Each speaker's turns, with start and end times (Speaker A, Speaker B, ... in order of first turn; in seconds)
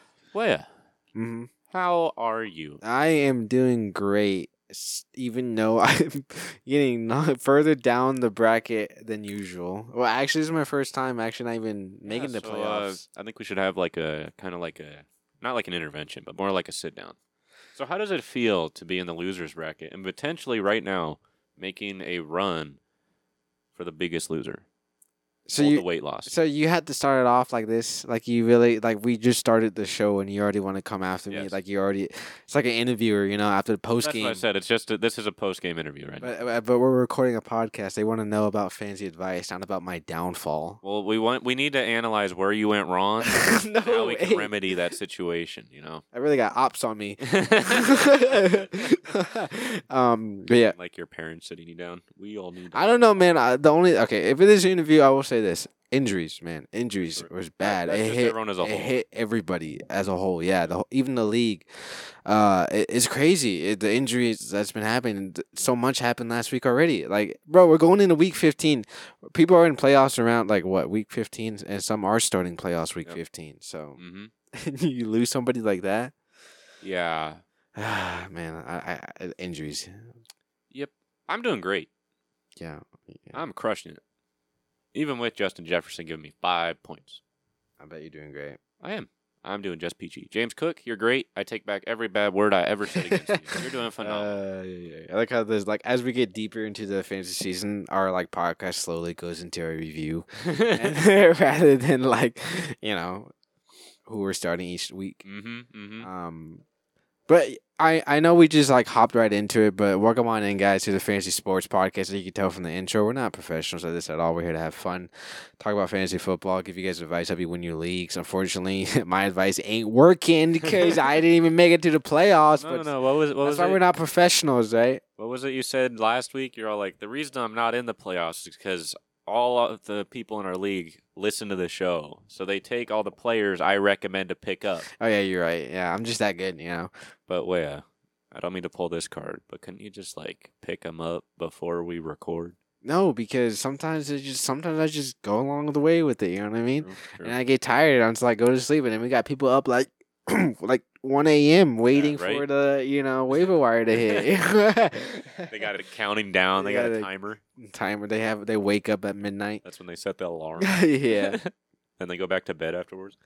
Speaker A: 0.3-0.7, 1.7-2.8, 12.0-17.1, 17.7-22.8, 23.7-24.6, 25.6-26.3, 31.3-31.6, 34.0-36.3, 40.8-46.0, 47.2-49.0, 50.5-53.0, 57.1-59.0, 74.0-74.3, 76.8-77.4, 80.7-81.9, 83.3-84.0, 84.9-87.2, 88.8-94.3, 100.4-101.0, 105.2-106.1, 120.6-121.0, 122.6-123.8, 125.2-134.9, 137.3-142.6, 146.8-147.4, 151.9-152.4, 153.3-154.3, 155.5-157.4, 159.6-163.2
Speaker B: 1.1-1.5, 2.8-13.0, 25.5-34.4, 36.2-40.8, 43.2-44.5, 46.1-50.8, 52.7-74.0, 74.5-76.1, 77.7-80.1, 82.6-83.4, 87.8-88.6, 92.9-103.3, 104.1-105.2, 106.0-106.6, 107.3-122.9, 123.4-125.0, 134.9-136.9, 142.8-155.7, 156.6-159.6, 160.6-161.4